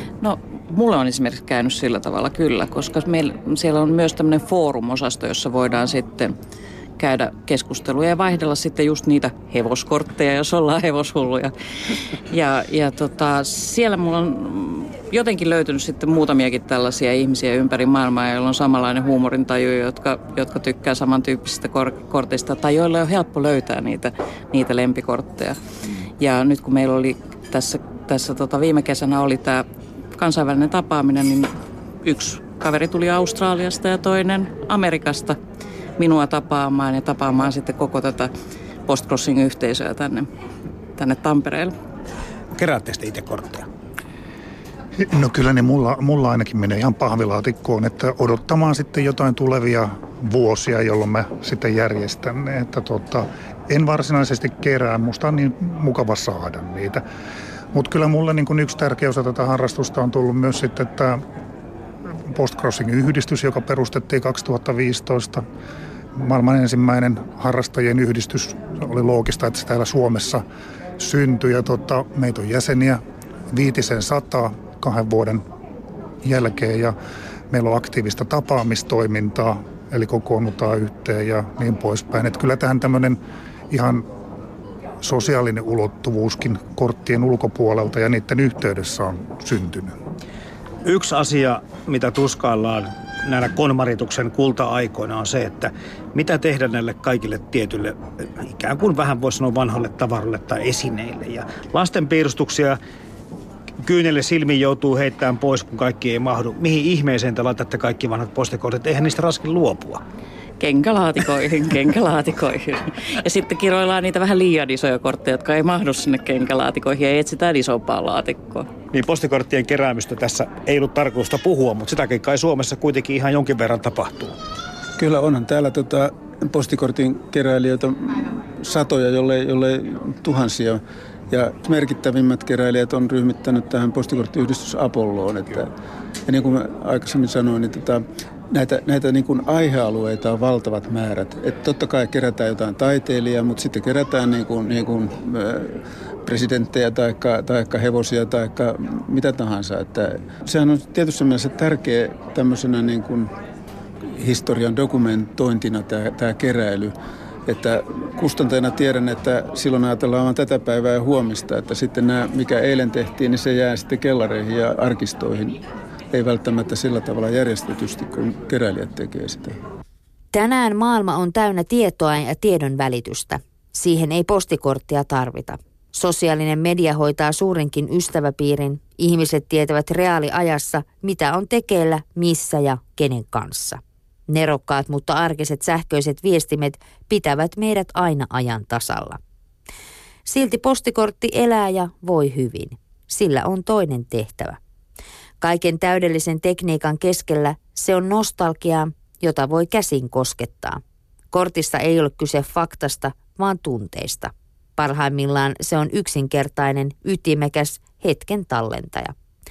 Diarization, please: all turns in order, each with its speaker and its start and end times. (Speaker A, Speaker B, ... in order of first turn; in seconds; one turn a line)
Speaker A: 0.2-6.3
Speaker A: 7.0-11.5
Speaker A: 12.3-25.6
Speaker A: 26.2-29.6
Speaker A: 30.1-35.4
Speaker A: 36.0-38.3
Speaker A: 38.9-40.3
Speaker A: 41.0-41.7
Speaker B: 42.5-43.7
Speaker C: 45.0-57.0
Speaker C: 57.7-61.2
Speaker C: 62.3-65.4
Speaker C: 66.1-70.4
Speaker C: 71.0-75.4
Speaker C: 76.2-76.9
Speaker C: 77.5-83.2
Speaker C: 83.7-84.0
Speaker C: 85.0-89.9
Speaker B: 90.8-102.8
Speaker B: 103.8-110.0
Speaker A: 110.6-118.7
Speaker B: 118.9-124.4
Speaker D: 125.0-135.7
Speaker D: 136.3-153.3
Speaker D: 154.1-156.9
Speaker D: 157.4-169.6
Speaker E: 170.3-189.2
Speaker E: 190.2-194.6
Speaker E: 195.4-200.8
Speaker E: 201.3-209.1